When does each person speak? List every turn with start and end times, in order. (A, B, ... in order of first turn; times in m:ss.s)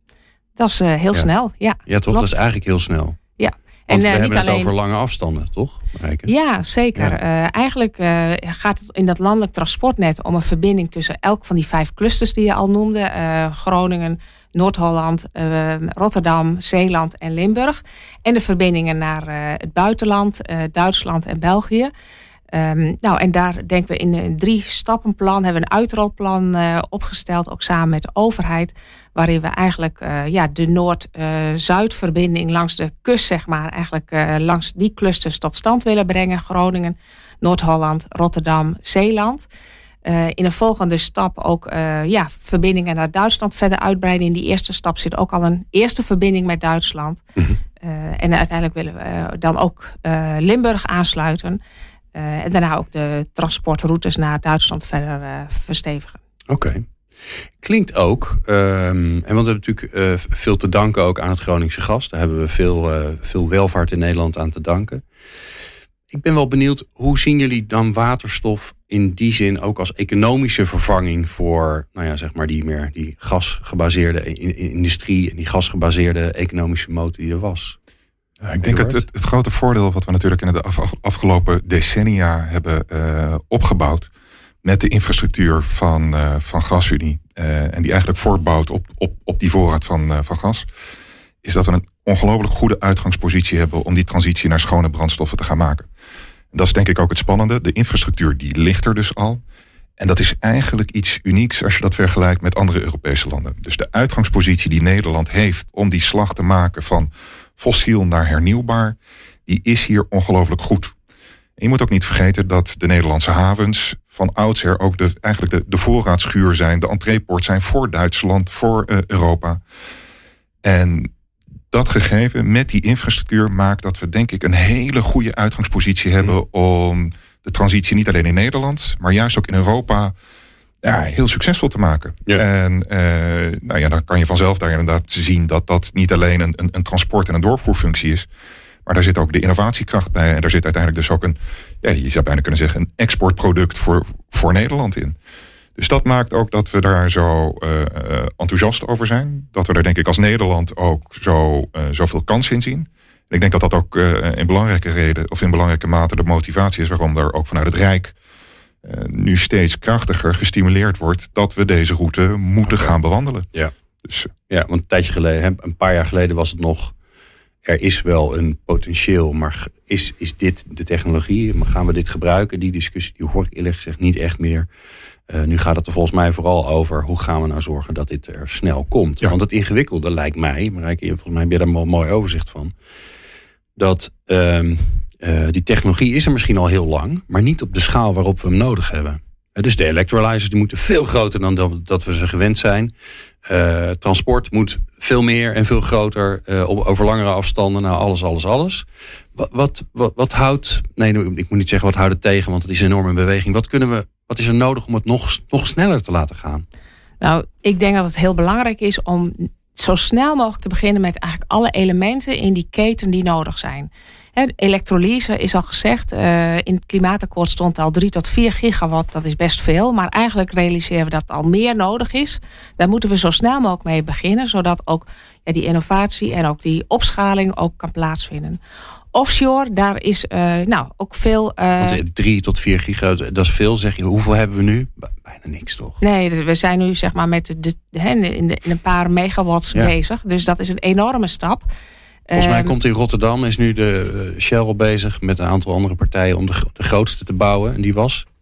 0:00.6-0:02.4 A
0:01.9-0:03.2 B
0:03.4-0:04.7 A
0:03.9-0:06.3 B
0:06.3-0:21.9 A
0:22.5-0:39.5 A
0:40.0-0:47.2 A
0:47.8-0:51.6 A
0:52.1-0:56.2 A
0:56.5-0:56.9 B
0:57.6-1:05.0 B
1:06.1-1:17.8 B
1:18.4-1:24.1 C
1:18.6-1:19.0 B
1:24.6-1:30.7 C
1:31.4-1:35.9 C
1:36.5-1:39.4 C
1:40.0-1:50.9 C
1:51.6-1:59.6 C
2:00.6-2:01.1 C
2:01.7-2:10.1 C
2:10.8-2:18.3 C
2:18.8-2:25.2 C
2:25.8-2:38.1 C
2:38.8-2:43.5 C
2:42.6-2:42.9 B
2:44.0-2:44.3 C
2:44.5-2:46.9 B
2:47.6-2:54.7 B
2:55.3-3:02.7 B
3:03.8-3:12.9 B
3:13.4-3:26.6 B
3:27.2-3:48.6 A
3:49.1-3:52.0 A
3:51.8-3:56.0 B
3:56.0-4:01.6 A
4:02.3-4:02.7 A
4:02.3-4:08.3 B